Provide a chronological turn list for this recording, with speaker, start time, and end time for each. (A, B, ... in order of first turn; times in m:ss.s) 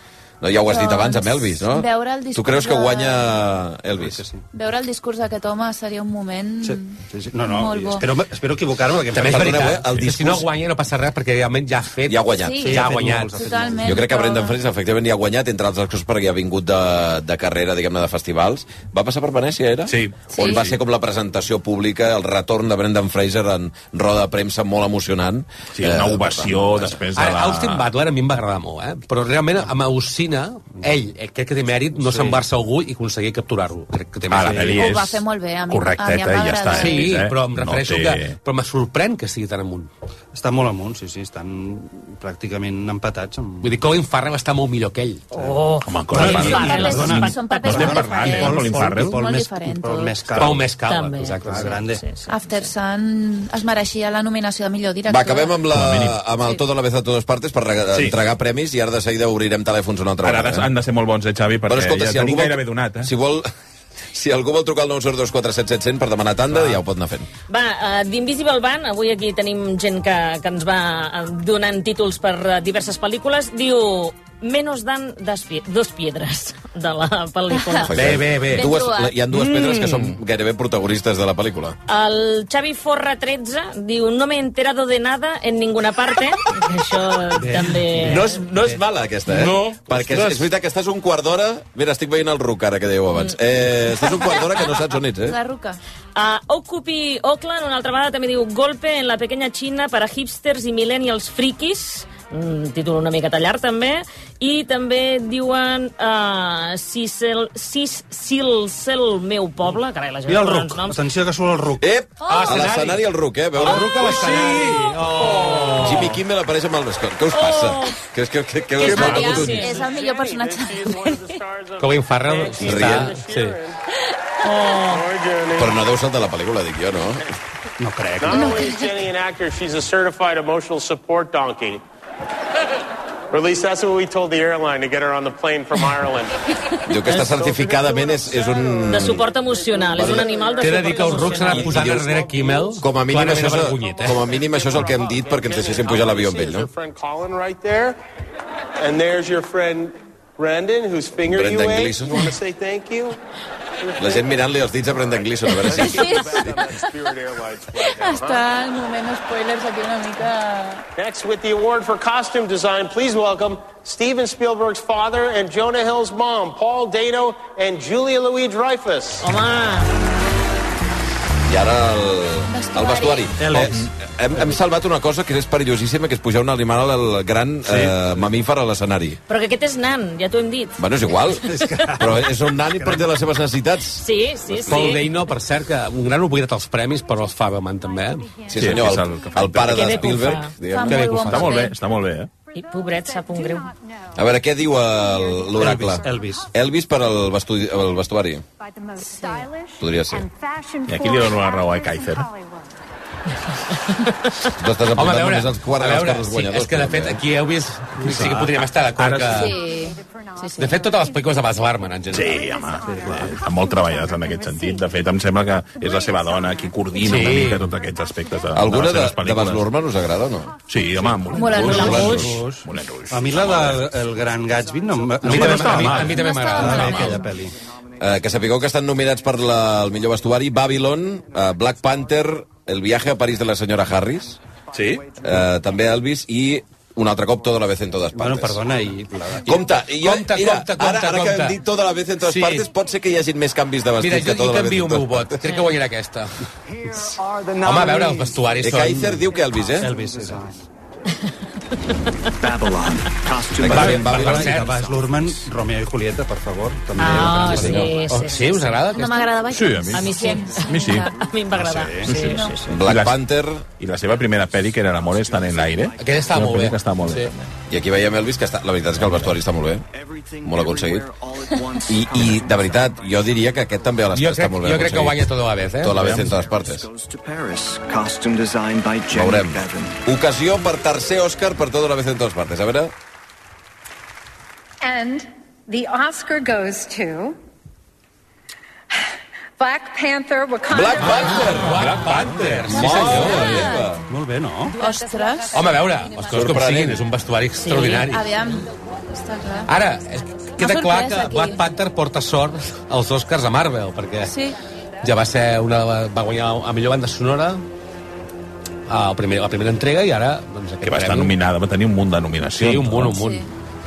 0:00.4-0:04.2 A
0:00.6-0:03.5 B
0:04.0-0:04.4 C
0:04.5-0:08.1 B
0:06.6-0:09.8 C
0:09.1-0:13.4 D
0:09.2-0:10.4 A
0:12.1-0:12.8 A
0:12.4-0:14.6 B
0:12.6-0:14.0 C
0:13.8-0:27.0 A
0:19.9-0:20.2 E
0:20.3-0:20.8 B
0:25.8-0:27.9 E
0:27.2-0:34.8 D
0:32.0-0:32.4 C
0:34.3-0:38.4 E
0:34.4-0:34.8 C
0:34.7-0:37.2 B
0:36.7-0:39.9 D
0:40.3-0:43.7 C
0:43.6-0:45.3 D
0:45.3-0:50.8 C
0:45.3-0:48.1 F
0:45.8-0:49.2 E
0:46.2-0:50.2 B
0:50.4-0:51.8 D
0:50.8-0:52.6 F
0:51.3-0:52.1 C
0:52.3-0:55.7 B
0:55.1-1:00.7 A
0:55.7-0:56.2 E
1:00.2-1:03.1 E
1:01.7-1:03.5 A
1:04.1-1:07.3 A
1:07.5-1:18.0 F
1:17.5-1:17.9 B
1:17.8-1:21.8 A
1:18.0-1:18.7 D
1:18.5-1:19.2 B
1:21.9-1:28.4 F
1:27.4-1:28.8 C
1:28.0-1:35.4 A
1:29.4-1:30.4 E
1:34.0-1:34.5 F
1:35.2-1:35.8 B
1:36.2-1:51.0 F
1:50.3-1:51.8 C
1:51.8-1:54.1 A
1:52.2-1:52.8 B
1:52.3-1:53.0 D
1:53.6-1:56.1 D
1:54.0-1:54.9 E
1:55.8-1:59.8 A
1:57.3-1:58.0 F
1:58.8-1:59.8 F
1:58.8-2:01.3 B
1:58.9-1:59.4 E
1:59.6-2:03.8 G
2:01.8-2:03.6 D
2:02.6-2:03.2 A
2:04.5-2:05.0 F
2:04.8-2:05.8 G
2:05.6-2:07.3 A
2:07.8-2:08.8 C
2:08.2-2:11.8 G
2:08.3-2:08.9 B
2:13.3-2:16.4 G
2:16.9-2:19.3 A
2:17.1-2:17.4 F
2:17.1-2:18.5 G
2:18.8-2:22.0 F
2:19.9-2:20.4 A
2:20.0-2:22.8 G
2:20.6-2:24.3 D
2:21.7-2:21.9 A
2:22.8-2:26.7 A
2:24.3-2:28.0 G
2:28.8-2:33.2 G
2:31.3-2:32.4 A
2:33.8-2:34.4 G
2:34.0-2:36.4 A
2:35.5-2:38.4 G
2:35.7-2:36.8 B
2:37.8-2:40.9 B
2:41.0-2:49.3 G
2:49.2-2:49.9 F
2:51.5-2:59.2 A
2:52.5-2:53.5 B
2:53.4-2:53.8 C
2:53.6-2:53.9 E
2:59.3-3:01.8 F
3:00.8-3:05.0 A
3:01.5-3:03.1 C
3:04.0-3:05.1 F
3:04.7-3:08.4 D
3:08.2-3:08.7 H
3:08.5-3:11.4 A
3:08.6-3:10.0 E
3:09.6-3:10.6 F
3:10.7-3:11.8 B
3:10.9-3:11.6 D
3:11.1-3:12.3 E
3:12.5-3:13.7 F
3:12.6-3:14.1 H
3:14.2-3:18.4 A
3:15.0-3:16.5 H
3:15.5-3:16.5 C
3:18.6-3:22.7 H
3:19.8-3:20.3 A
3:20.9-3:22.3 E
3:24.6-3:27.2 A
3:25.0-3:29.6 D
3:28.0-3:29.5 E
3:29.3-3:30.8 B
3:29.6-3:31.2 H
3:30.6-3:32.5 D
3:32.1-3:39.7 E
3:32.3-3:35.0 H
3:32.9-3:33.4 C
3:35.8-3:37.0 H
3:37.0-3:37.6 D
3:37.8-3:38.5 H
3:38.5-3:40.5 A
3:40.5-3:41.4 H
3:40.7-3:43.8 E
3:41.3-3:42.2 B
3:41.5-3:42.4 F
3:41.6-3:42.2 A
3:41.8-3:47.6 C
3:45.2-3:47.0 D
3:45.2-3:47.2 E
3:46.0-3:47.4 B
3:48.0-3:54.4 A
3:54.7-3:55.0 E
3:54.8-3:55.4 I
3:55.2-3:58.6 A
3:58.1-3:59.6 C
3:59.4-4:05.4 A
3:59.8-4:01.6 D
4:02.2-4:02.7 D
4:04.0-4:06.4 D
4:06.8-4:08.6 I
4:07.6-4:09.2 D
4:08.6-4:10.0 A
4:09.3-4:10.4 I
4:09.8-4:10.6 C
4:12.4-4:13.9 I
4:13.5-4:14.6 A
4:13.6-4:14.8 D
4:13.7-4:17.9 C
4:17.0-4:19.0 F
4:17.0-4:17.9 A
4:17.3-4:19.4 D
4:18.9-4:21.1 B
4:19.4-4:21.1 E
4:19.9-4:22.8 F
4:20.4-4:21.7 I
4:21.5-4:22.1 C
4:22.1-4:23.2 E
4:22.1-4:22.6 B
4:22.7-4:23.7 A
4:23.8-4:27.6 E
4:24.0-4:26.4 I
4:26.0-4:27.3 D
4:27.7-4:29.9 A
4:29.9-4:33.9 I
4:30.4-4:31.1 A
4:31.9-4:35.3 A
4:34.1-4:36.0 D
4:35.8-4:36.9 A
4:35.9-4:36.3 E
4:36.2-4:40.0 I
4:39.1-4:42.9 A
4:44.8-4:47.4 H
4:49.6-4:52.1 H
4:50.7-4:51.9 A
4:51.0-4:53.7 D
4:51.7-4:52.8 E
4:52.7-4:54.0 A
4:52.7-4:54.0 B
4:53.2-4:53.5 C
4:53.5-4:53.9 H
4:54.1-4:54.8 C
4:54.7-4:56.5 H
4:54.8-4:55.6 B
4:55.5-4:58.3 D
4:56.2-4:57.1 A
4:57.6-4:58.1 F
4:58.0-4:59.7 B
4:59.7-5:04.4 D
5:00.6-5:01.6 B
5:04.3-5:04.6 B
5:05.0-5:07.6 D
5:08.9-5:11.4 D
5:10.8-5:13.2 E
5:12.6-5:13.5 D
5:13.1-5:13.5 B